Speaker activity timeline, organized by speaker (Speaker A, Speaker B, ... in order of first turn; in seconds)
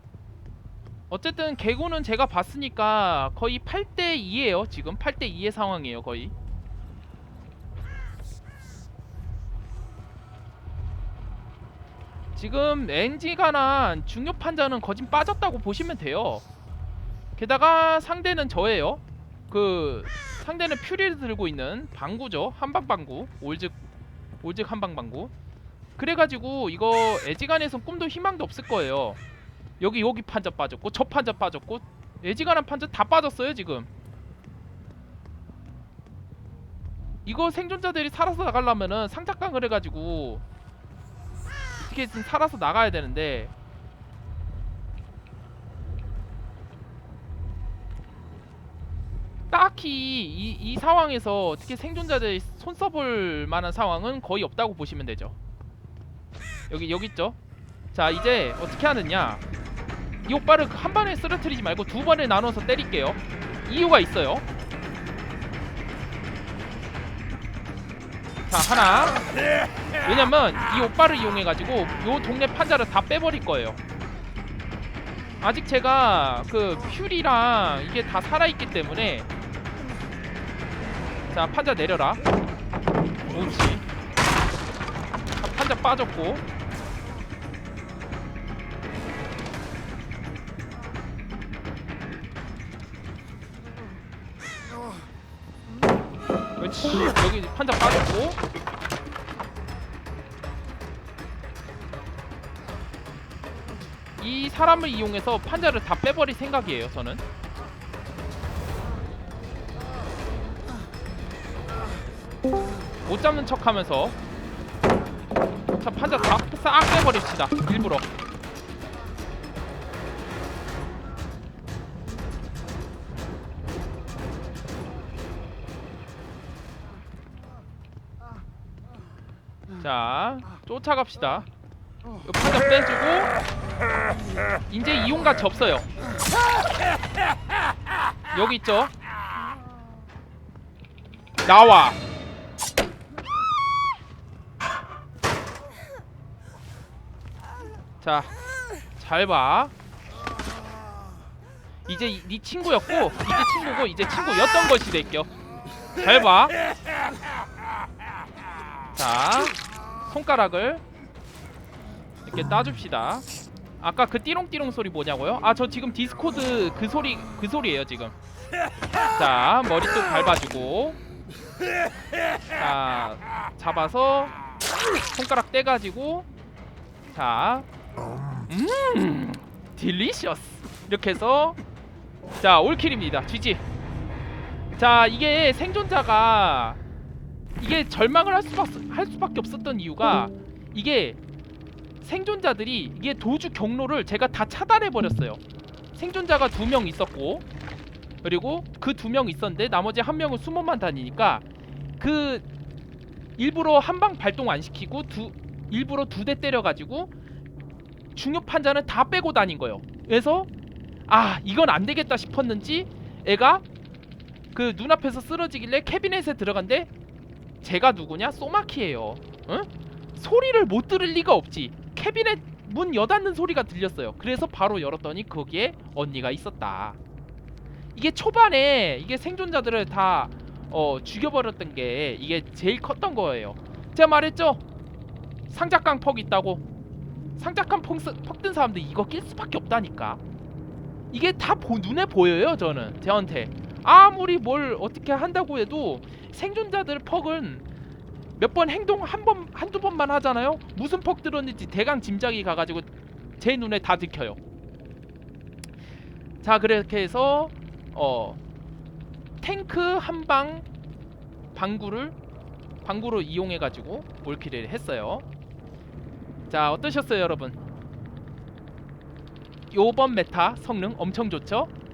Speaker A: 1.1-6.3, 12.4-16.4, 17.4-23.8, 24.4-25.3, 26.0-29.2, 29.8-33.9, 37.2-40.4, 41.8-43.5, 49.5-55.3, 56.7-57.4, 57.9-59.4, 60.2-64.5, 68.5-69.3, 70.0-73.8, 75.4-79.3, 81.3-82.2, 83.3-83.8, 85.4-86.4, 96.6-98.4, 104.2-107.2, 113.0-114.2, 115.8-118.1, 129.8-131.5, 132.2-133.3, 134.7-135.9, 138.3-138.9, 141.4-142.0, 148.0-148.3, 149.0-149.7, 151.9-155.3, 156.0-156.6, 158.9-160.8, 162.2-163.2, 163.8-168.2, 169.1-171.0, 172.5-174.4, 175.1-176.3, 177.1-177.7, 178.5-181.6, 182.4-183.6, 184.7-186.8, 187.6-191.2, 192.0-195.4, 195.9-197.5, 198.2-201.4, 202.0-202.5, 203.4-207.1, 208.2-210.5, 211.1-213.7, 214.5-216.9, 217.6-227.0, 227.9-234.6, 235.5-236.6, 237.4-240.2, 241.1-247.7, 248.4-252.9, 253.4-254.4, 256.4-258.4, 259.4-260.7, 261.5-262.2, 262.9-265.2, 266.5-267.6, 269.7-271.7